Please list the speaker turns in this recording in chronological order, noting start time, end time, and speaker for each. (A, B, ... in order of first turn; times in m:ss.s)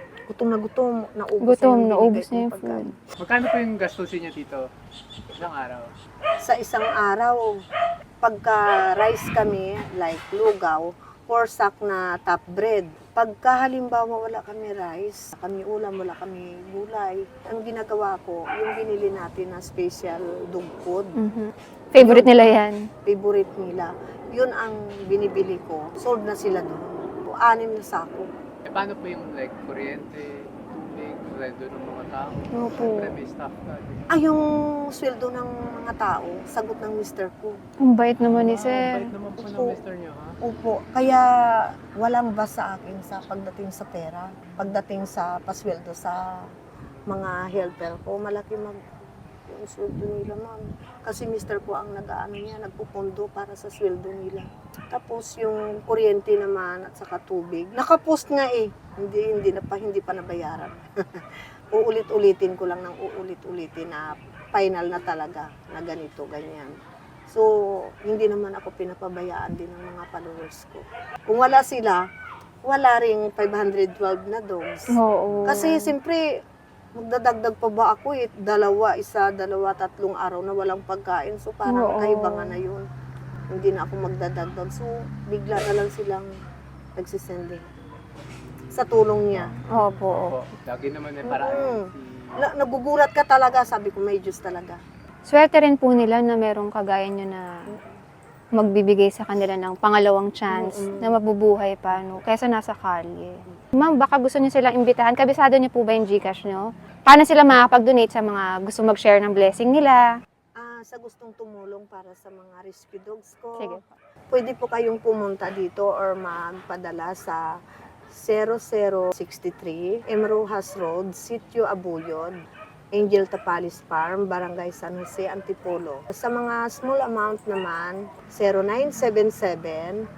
0:00.3-0:02.9 A
0:01.5-0:02.9 B
0:03.2-0:04.6 C
0:05.3-0:05.9 C
0:06.4-0:07.5 A
0:08.2-0:21.1 A
0:21.2-0:22.8 B
0:22.0-0:28.3 A
0:28.7-0:34.1 C
0:32.5-0:33.2 B
0:34.1-0:37.6 A
0:37.8-0:39.0 B
0:38.2-0:40.3 C
0:39.4-0:39.8 A
0:40.4-0:41.3 A
0:42.0-0:46.2 A
0:47.1-1:06.7 A
1:08.0-1:12.0 A
1:12.7-1:14.9 A
1:15.0-1:15.9 B
1:15.4-1:16.2 A
1:17.0-1:22.8 A
1:21.7-1:22.6 B
1:23.5-1:26.3 A
1:27.0-1:27.6 A
1:28.7-1:29.6 A
1:28.8-1:32.3 C
1:29.7-1:30.4 B
1:31.2-1:31.8 A
1:32.4-1:34.8 A
1:35.3-1:37.6 B
1:38.6-1:50.1 B
1:40.5-1:41.1 A
1:50.6-1:53.8 A
1:53.6-1:53.9 B
1:54.3-1:57.4 A
1:58.1-2:02.3 A
2:02.9-2:10.0 A